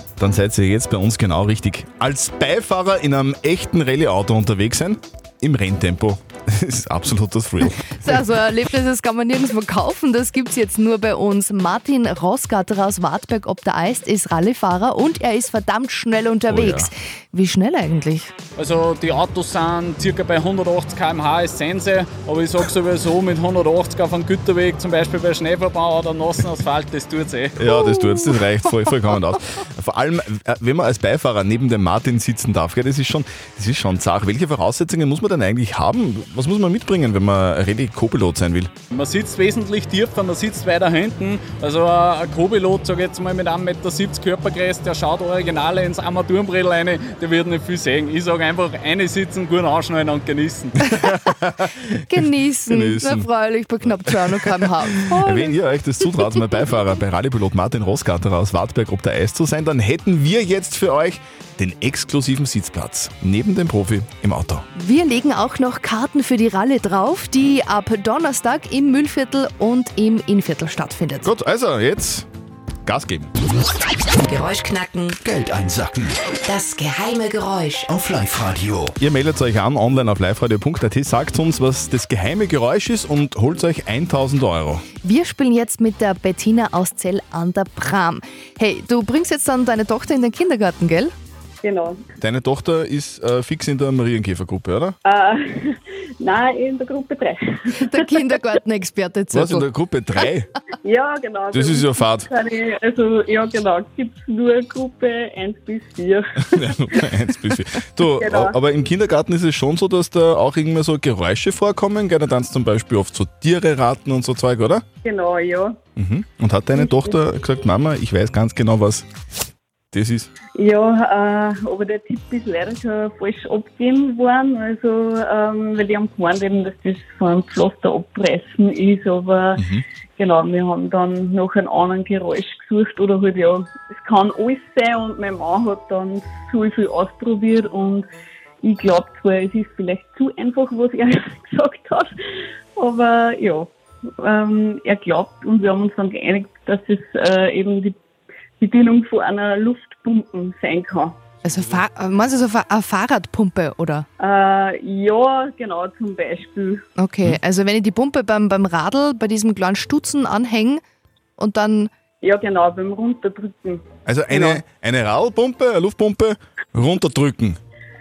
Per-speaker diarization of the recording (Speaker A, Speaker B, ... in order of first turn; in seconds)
Speaker A: 0.2-8.2, 16.5-16.9, 27.6-38.7, 50.8-52.0, 52.7-53.3, 54.1-64.6, 71.2-72.3, 72.9-73.3, 79.0-84.8, 92.2-95.0, 99.3-100.5, 101.5-102.3, 106.5-114.8, 116.0-119.1, 119.9-120.3, 129.6-129.8, 164.1-167.6
Speaker B: 8.0-18.3, 27.7-28.4, 52.0-55.6, 64.8-71.3, 85.0-91.1, 97.9-99.7, 151.4-154.1, 157.0-160.8, 161.4-161.9
Speaker C: 18.6-27.6, 38.9-50.9
Speaker D: 74.2-75.2, 76.4-77.9
Speaker E: 75.2-76.2, 78.0-78.9
Speaker F: 91.6-92.0, 95.1-98.4, 100.8-107.1, 108.1-108.5, 115.0-115.8, 116.8-117.2, 120.5-138.1, 138.6-142.1, 142.8-148.0, 148.6-151.2, 154.2-156.8, 162.2-164.6